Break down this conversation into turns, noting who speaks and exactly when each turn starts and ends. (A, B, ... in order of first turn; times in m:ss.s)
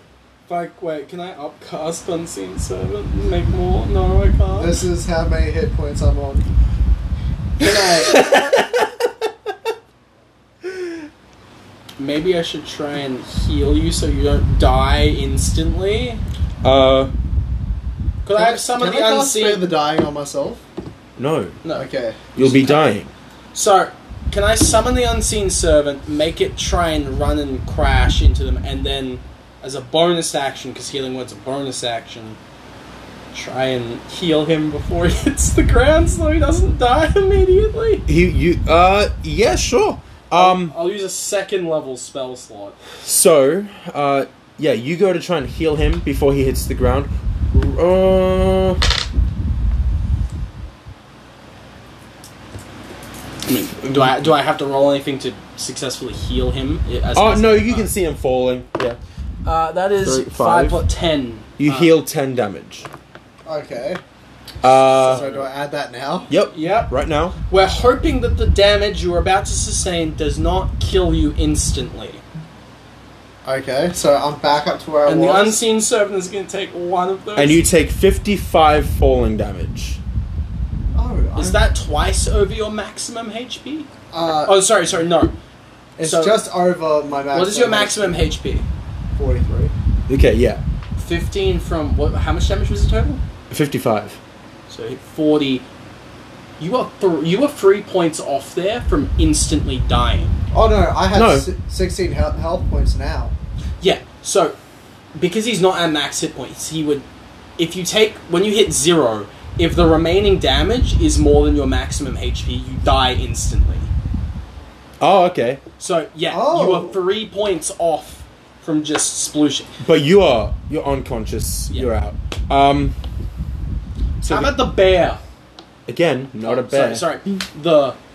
0:00.5-0:04.8 A
0:04.5-0:06.5 B
0:07.6-0:08.3 A
0:07.6-0:08.9 C
0:12.0-0:16.2 A
0:16.6-0:17.1 C
0:18.2-0:19.7 A
0:18.3-0:20.6 B
0:21.2-0:21.6 C
0:21.6-0:22.8 A
0:21.7-0:22.3 B
0:22.3-0:23.1 C
0:23.5-0:32.4 A
0:33.3-0:38.0 A
0:38.1-0:40.8 C
0:40.3-0:42.8 A
0:43.0-0:48.8 C
0:53.4-0:57.9 A
0:57.1-0:59.0 C
0:59.4-1:01.9 A
1:00.0-1:00.8 C
1:01.6-1:02.9 C
1:03.4-1:04.0 B
1:04.6-1:05.2 C
1:05.0-1:05.5 A
1:05.0-1:06.3 B
1:06.3-1:07.4 C
1:06.5-1:06.9 A
1:07.5-1:12.2 A
1:13.4-1:15.6 B
1:15.0-1:17.6 A
1:17.4-1:20.0 C
1:20.9-1:21.6 B
1:21.4-1:23.9 A
1:24.1-1:24.6 B
1:24.4-1:25.3 A
1:26.0-1:28.3 B
1:26.0-1:26.4 A
1:27.3-1:28.6 A
1:29.2-1:29.7 B
1:30.1-1:30.6 C
1:31.0-1:33.2 A
1:33.5-1:34.2 C
1:34.7-1:35.6 A
1:36.6-1:40.4 A
1:40.5-1:43.3 B
1:41.1-1:41.5 C
1:43.8-1:44.6 A
1:45.1-1:47.0 A
1:47.6-1:53.9 A
1:55.0-1:55.6 C
1:55.8-1:59.7 A
1:56.3-1:57.0 B
1:59.8-2:02.9 C
2:04.2-2:04.5 C
2:04.2-2:05.2 A
2:05.9-2:07.1 C
2:06.4-2:08.0 A